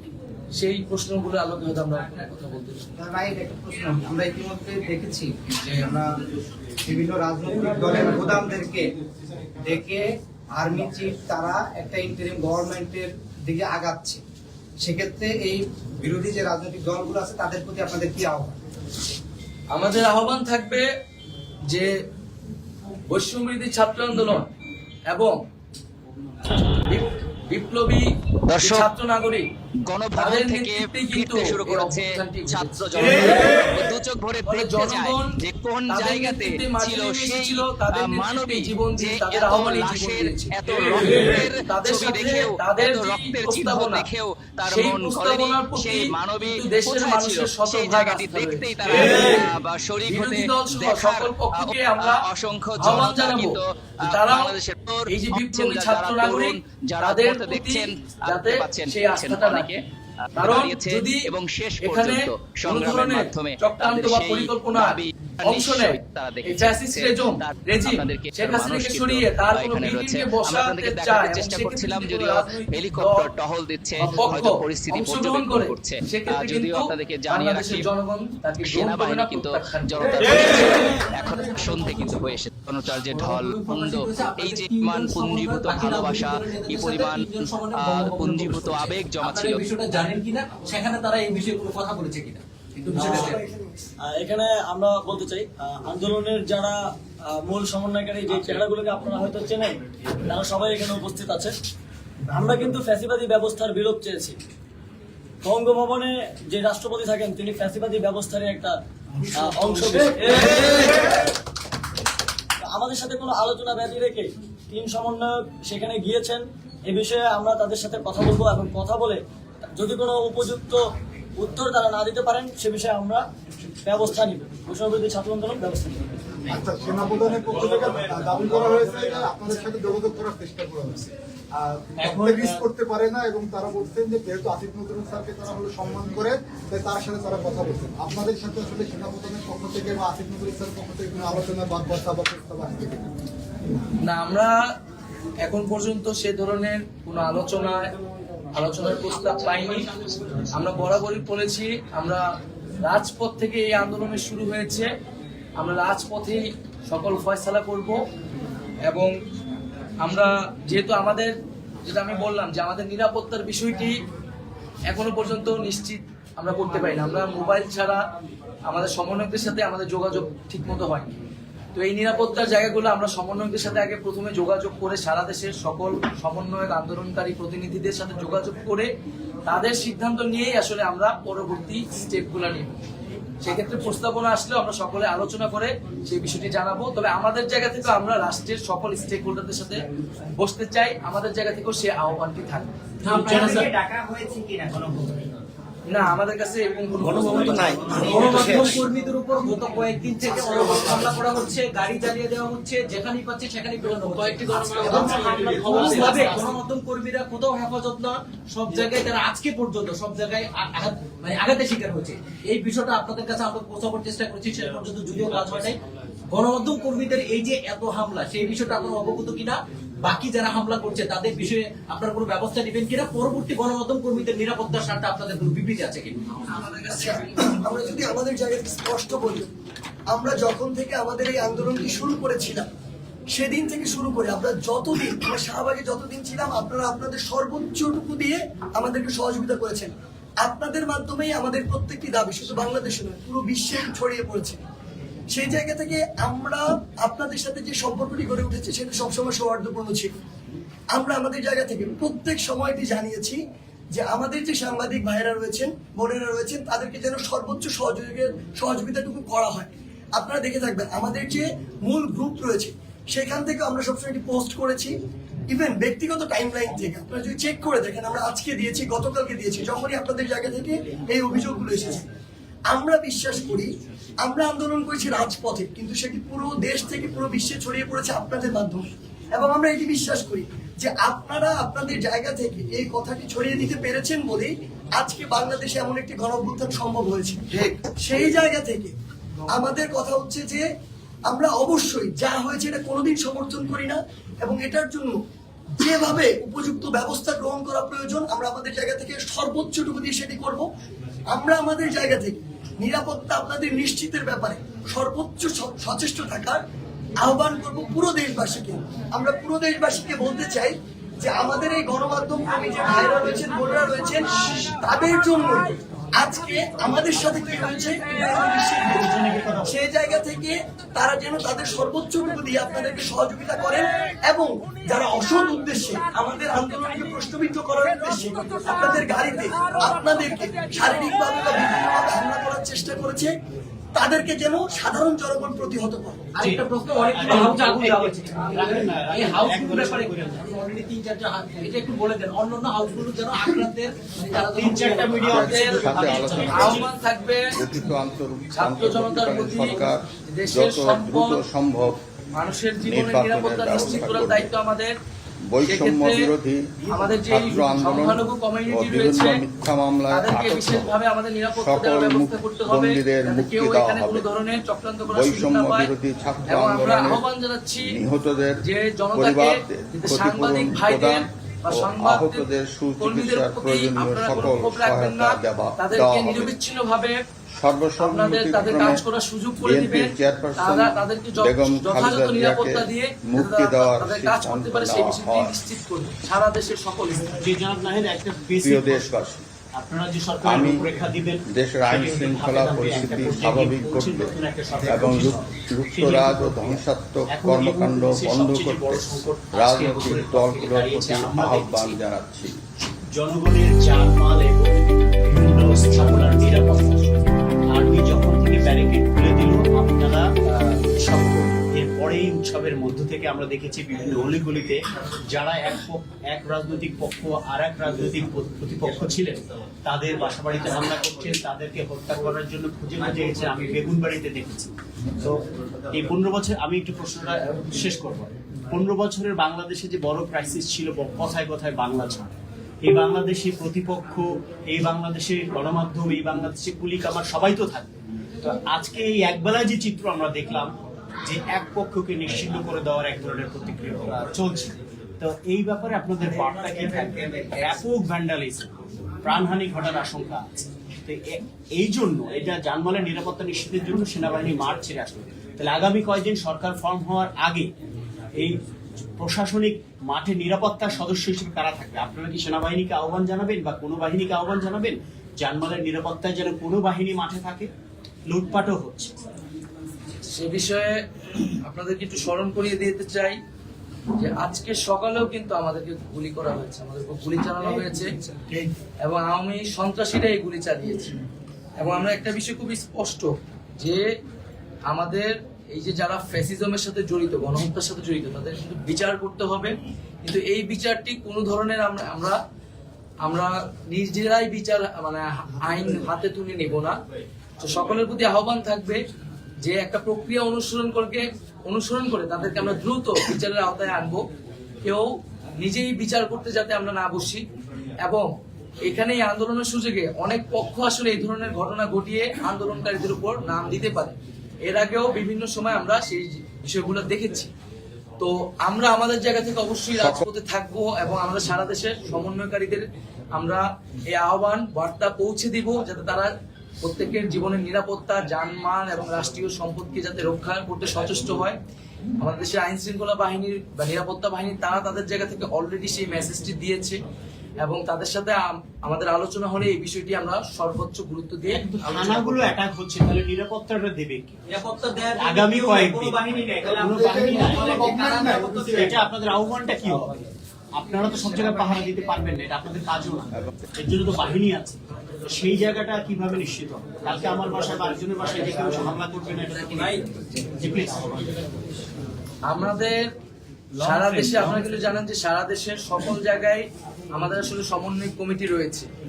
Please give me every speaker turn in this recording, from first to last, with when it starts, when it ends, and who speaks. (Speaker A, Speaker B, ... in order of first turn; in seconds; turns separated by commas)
Speaker A: 0.6-2.9, Speaker B: 3.0-6.2, Speaker B: 6.8-8.8, Speaker B: 9.6-14.2, Speaker B: 14.8-18.6, Speaker A: 19.7-20.9, Speaker A: 23.1-24.5, Speaker A: 25.1-25.4, Speaker A: 26.9-28.1, Speaker C: 28.5-28.9, Speaker A: 28.6-29.5, Speaker C: 29.8-59.8, Speaker A: 30.1-33.7, Speaker A: 34.5-35.4, Speaker A: 35.9-44.1, Speaker A: 44.7-49.4, Speaker A: 50.1-52.2, Speaker A: 52.8-54.5, Speaker A: 55.1-59.7, Speaker C: 60.3-77.9, Speaker A: 60.4-61.3, Speaker A: 61.8-73.3, Speaker A: 74.0-81.1, Speaker C: 78.6-89.6, Speaker D: 83.0-93.4, Speaker E: 92.9-93.6, Speaker F: 94.1-101.5, Speaker F: 102.3-104.4, Speaker F: 105.4-108.7, Speaker F: 109.3-110.8, Speaker G: 109.4-110.4, Speaker F: 112.6-119.2, Speaker F: 119.7-120.8, Speaker F: 121.4-123.2, Speaker F: 123.8-126.0, Speaker H: 126.5-143.1, Speaker G: 126.9-129.3, Speaker G: 132.0-132.6, Speaker A: 144.0-144.6, Speaker A: 145.4-147.9, Speaker A: 148.5-149.9, Speaker A: 150.5-152.2, Speaker A: 152.8-154.9, Speaker A: 155.6-158.0, Speaker A: 158.8-159.1, Speaker A: 160.0-164.0, Speaker A: 164.9-168.0, Speaker A: 168.7-171.1, Speaker A: 171.7-178.9, Speaker A: 179.4-182.8, Speaker A: 183.4-189.8, Speaker A: 190.4-192.7, Speaker D: 193.0-193.7, Speaker B: 193.1-195.3, Speaker A: 195.9-197.9, Speaker B: 197.0-198.8, Speaker D: 197.8-215.8, Speaker B: 200.2-201.2, Speaker A: 204.2-204.6, Speaker F: 204.8-206.4, Speaker G: 204.9-206.4, Speaker B: 205.0-206.2, Speaker D: 216.3-226.2, Speaker A: 226.5-227.6, Speaker E: 226.9-229.5, Speaker E: 230.1-232.7, Speaker E: 233.3-244.6, Speaker E: 245.3-250.1, Speaker E: 250.9-253.4, Speaker E: 253.9-264.9, Speaker E: 265.5-272.0, Speaker E: 272.7-273.7, Speaker E: 274.2-287.4, Speaker E: 288.0-288.9, Speaker E: 289.5-290.6, Speaker E: 291.3-295.2, Speaker E: 295.8-300.7, Speaker E: 301.3-306.6, Speaker E: 307.2-333.3, Speaker G: 318.5-319.7, Speaker E: 333.9-336.3, Speaker D: 336.4-346.8, Speaker G: 336.4-340.4, Speaker G: 344.5-346.8, Speaker I: 345.2-346.8, Speaker A: 346.5-347.6, Speaker I: 347.5-352.0, Speaker A: 348.5-351.4, Speaker A: 352.4-354.9, Speaker I: 352.8-354.5, Speaker I: 355.5-360.9, Speaker A: 355.6-356.3, Speaker A: 356.9-359.4, Speaker A: 360.1-365.9, Speaker I: 361.6-364.3, Speaker I: 365.1-367.2, Speaker A: 366.5-368.0, Speaker I: 367.8-368.6, Speaker A: 368.6-372.4, Speaker I: 369.1-376.5, Speaker A: 373.0-377.2, Speaker I: 377.5-379.0, Speaker A: 378.0-387.4, Speaker I: 379.6-385.5, Speaker G: 387.4-389.1, Speaker I: 388.6-389.4, Speaker G: 389.7-402.0, Speaker I: 390.4-394.3, Speaker I: 394.9-402.5, Speaker G: 403.1-425.4, Speaker G: 425.9-440.7, Speaker G: 441.2-457.7, Speaker B: 446.3-447.6, Speaker G: 459.2-467.7, Speaker G: 468.3-469.1, Speaker A: 470.3-470.9, Speaker A: 471.6-473.4, Speaker A: 474.2-478.1, Speaker A: 479.0-481.1, Speaker A: 481.8-484.1, Speaker A: 484.9-492.4, Speaker A: 493.2-497.0, Speaker A: 497.6-499.0, Speaker A: 499.6-504.2, Speaker A: 504.8-507.4, Speaker A: 508.0-508.3, Speaker A: 508.8-517.5, Speaker A: 518.2-526.3, Speaker I: 520.0-520.2, Speaker A: 526.8-531.6, Speaker A: 532.2-537.0, Speaker A: 537.6-542.5, Speaker G: 541.5-544.4, Speaker D: 544.5-549.0, Speaker G: 545.2-546.2, Speaker B: 545.7-548.8, Speaker H: 546.7-548.9, Speaker G: 546.8-547.7, Speaker G: 548.8-550.2, Speaker G: 550.7-561.4, Speaker A: 562.5-563.0, Speaker G: 563.8-564.7, Speaker A: 563.8-568.9